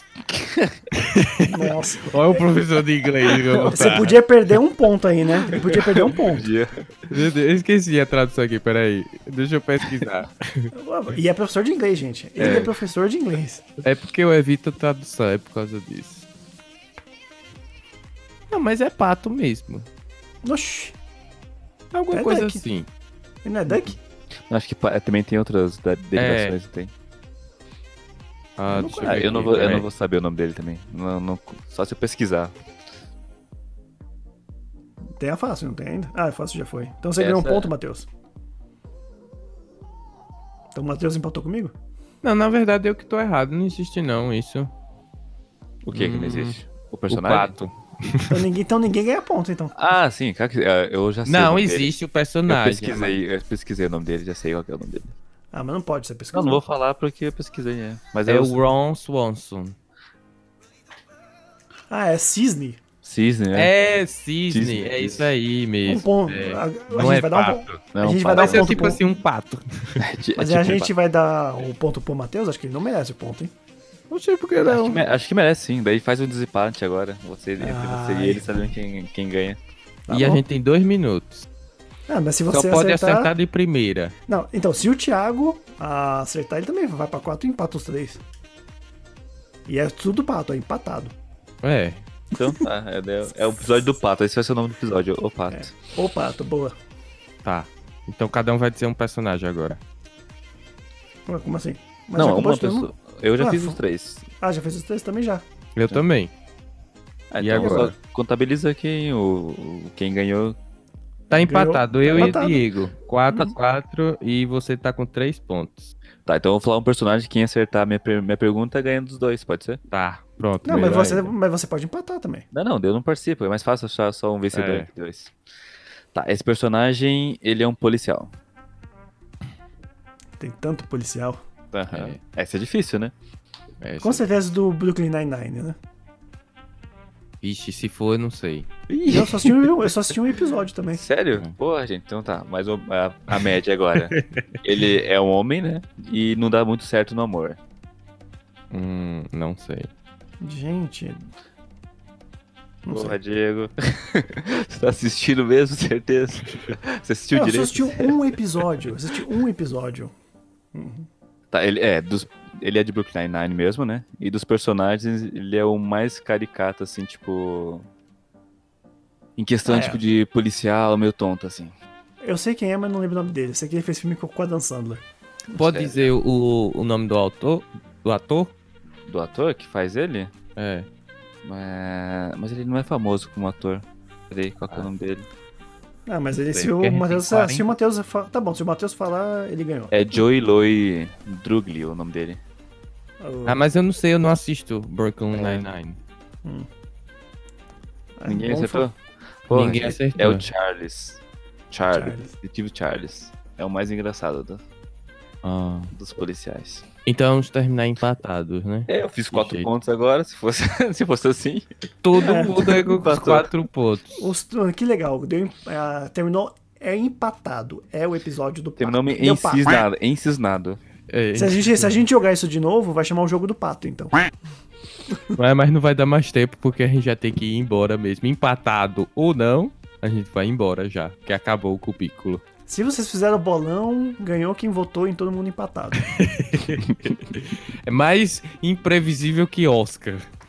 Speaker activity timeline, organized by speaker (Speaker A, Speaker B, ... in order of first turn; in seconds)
Speaker A: 0.3-0.7, 3.5-4.0, 5.5-7.1, 12.4-12.7, 24.5-26.9, 29.0-32.5, 37.2-37.7, 45.9-47.5, 49.8-51.9, 52.5-55.1, 56.3-58.6, 63.0-63.7, 64.5-65.3, 67.9-69.0, 70.0-70.9, 74.7-79.6, 92.4-95.8, 102.2-104.2, 107.3-110.5, 112.2-112.4, 116.2-119.8, 122.5-125.3, 126.1-128.3, 131.7-133.1, 138.9-139.7, 140.9-147.6, 152.9-158.2, 161.5-167.9, 169.4-171.7, 175.6-176.1, 179.1-180.3, 181.4-185.2, 189.9-192.4, 195.3-195.7, 198.2-198.9, 199.5-204.6, 205.9-206.8, 208.9-211.7, 212.2-213.5, 218.8-220.8
Speaker B: 0.9-4.2, 7.1-10.7, 13.8-16.2, 18.5-19.9, 21.9-22.9, 26.2-26.6, 28.6-29.9, 42.2-44.7, 45.9-48.4, 51.2-53.2, 58.2-59.8, 63.5-70.0, 74.1-75.0, 80.1-81.5, 82.5-84.1, 91.6-92.0, 97.4-99.8, 105.8-106.3, 107.4-108.0, 111.3-115.9, 119.9-121.3, 124.5-124.9, 131.9-132.2, 133.8-134.2, 137.4-138.7, 144.0-144.5, 148.7-149.9, 175.5-178.5, 180.6-180.9, 186.5-187.7, 193.5-196.0, 199.5-200.5, 205.4-205.9, 207.1-209.7, 212.0-214.3, 221.1-222.0, 225.3-232.4, 235.9-240.2
Speaker C: 1.5-2.5, 3.8-6.5, 10.7-13.7, 20.4-20.9, 22.1-22.6, 23.4-24.0, 28.7-29.2, 35.2-38.1, 40.7-41.7, 48.3-49.7, 55.5-56.6, 61.9-62.8, 65.9-69.0, 70.4-73.5, 77.6-78.5, 80.1-80.4, 82.1-83.3, 84.3-88.2, 89.7-91.1, 95.5-96.8, 101.3-103.8, 104.4-105.5, 111.4-112.6, 120.6-122.5, 130.4-131.4, 134.0-135.8, 139.1-141.0, 150.4-151.2, 152.9-153.2, 157.3-160.1, 160.7-161.1, 169.7-170.0, 172.2-175.0, 186.1-189.9, 193.2-193.7, 198.2-198.9, 201.9-202.3, 212.2-212.6, 214.2-219.8, 221.3-224.2, 232.7-236.0